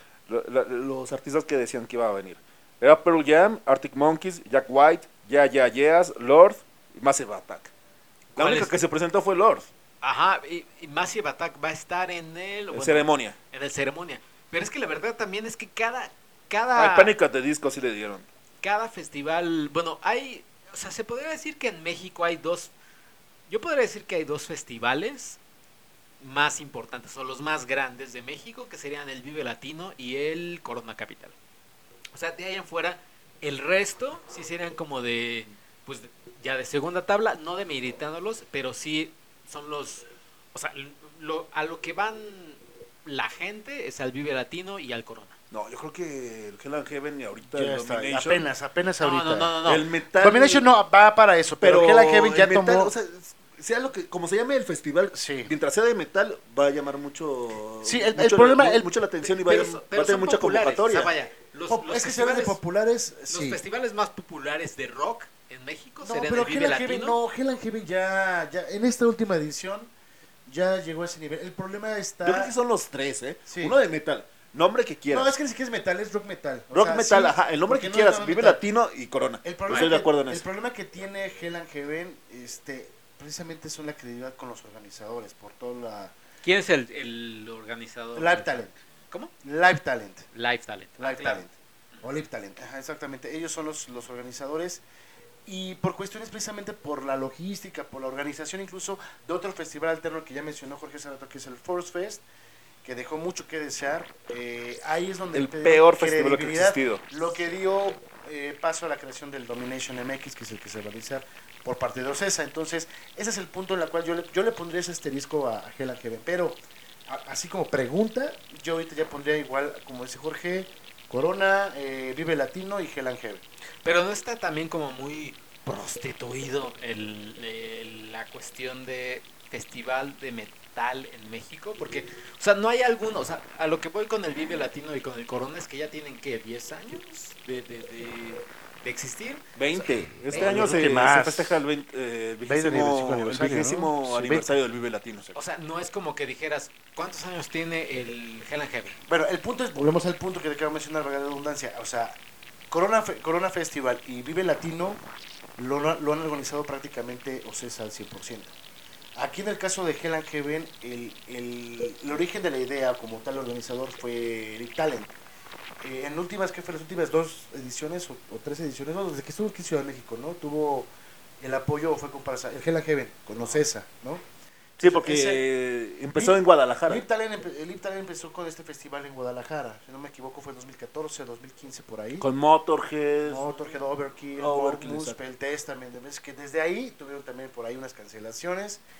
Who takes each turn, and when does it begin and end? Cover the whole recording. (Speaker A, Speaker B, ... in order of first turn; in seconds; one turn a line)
Speaker A: 0.3-7.7
Speaker B: 8.3-8.7
Speaker A: 8.4-9.7
Speaker B: 10.0-17.1
Speaker A: 12.7-13.4
Speaker A: 16.8-18.2
Speaker B: 18.6-22.7
Speaker B: 23.5-25.4
Speaker B: 26.2-31.4
Speaker B: 32.1-45.4
Speaker A: 45.5-48.4
Speaker C: 47.5-49.6
Speaker B: 49.0-49.9
Speaker A: 49.6-50.6
Speaker C: 50.2-52.9
Speaker A: 51.6-61.1
Speaker C: 55.1-55.5
Speaker C: 57.8-58.9
Speaker B: 59.4-62.6
Speaker C: 61.7-63.6
Speaker B: 63.3-67.2
Speaker C: 66.0-69.9
Speaker C: 70.5-72.5
Speaker A: 72.2-75.3
Speaker C: 73.5-73.8
Speaker C: 75.1-78.6
Speaker A: 76.7-80.4
Speaker C: 79.4-86.1
Speaker B: 86.4-89.3
Speaker C: 88.2-88.7
Speaker C: 89.4-90.3
Speaker B: 90.3-91.4
Speaker C: 91.0-94.8
Speaker C: 95.5-102.2
Speaker C: 102.8-123.4
Speaker A: 105.3-107.0
Speaker B: 123.8-140.7
Speaker A: 139.6-145.3
Speaker C: 140.3-141.6
Speaker C: 142.4-144.5
Speaker B: 145.3-148.9
Speaker C: 149.1-152.2
Speaker C: 152.7-155.0
Speaker C: 155.6-158.5
Speaker C: 159.2-165.1
Speaker C: 165.8-170.9
Speaker C: 171.4-174.2
Speaker C: 174.8-175.4
Speaker A: 174.8-177.0
Speaker C: 176.1-182.2
Speaker A: 182.2-183.5
Speaker C: 183.2-188.8
Speaker A: 184.4-185.2